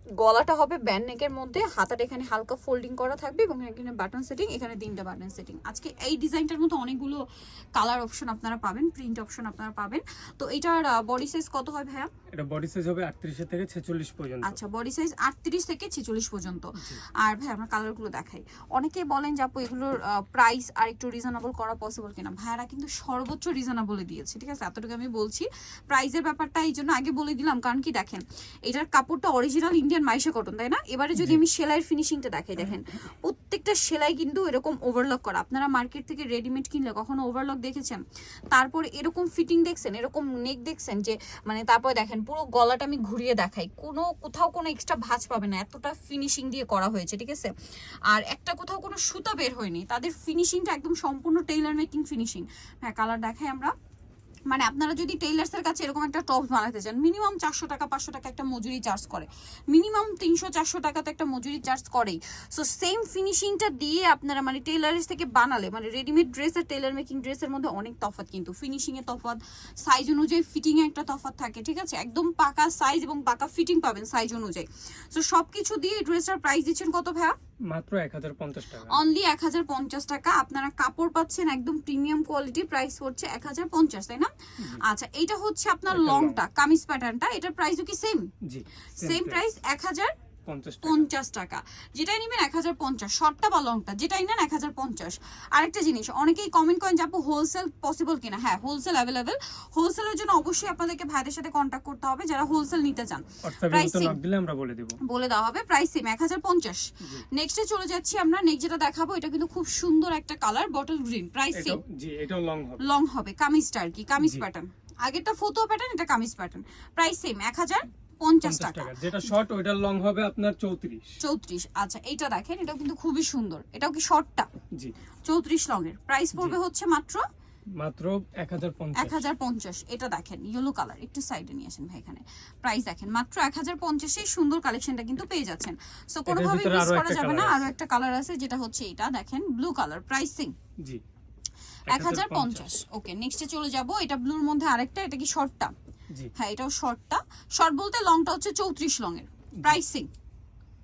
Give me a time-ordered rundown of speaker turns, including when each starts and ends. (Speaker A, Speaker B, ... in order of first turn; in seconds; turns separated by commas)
Speaker A: 0.2-7.2, Speaker A: 7.8-12.1, Speaker B: 12.3-14.6, Speaker A: 14.4-47.5, Speaker B: 16.8-17.0, Speaker A: 48.1-53.7, Speaker A: 54.5-77.4, Speaker B: 77.7-79.0, Speaker A: 78.9-88.3, Speaker B: 85.9-86.4, Speaker B: 88.4-89.4, Speaker A: 89.0-90.1, Speaker B: 90.5-91.1, Speaker A: 90.8-104.2, Speaker B: 103.4-105.0, Speaker A: 105.0-111.8, Speaker B: 107.0-107.3, Speaker B: 111.5-112.8, Speaker A: 112.8-119.0, Speaker B: 114.2-114.5, Speaker B: 118.4-121.2, Speaker A: 121.2-124.5, Speaker A: 125.2-127.3, Speaker B: 127.8-129.3, Speaker A: 129.0-140.6, Speaker B: 136.3-137.7, Speaker B: 141.9-142.8, Speaker A: 141.9-145.7, Speaker A: 146.3-150.1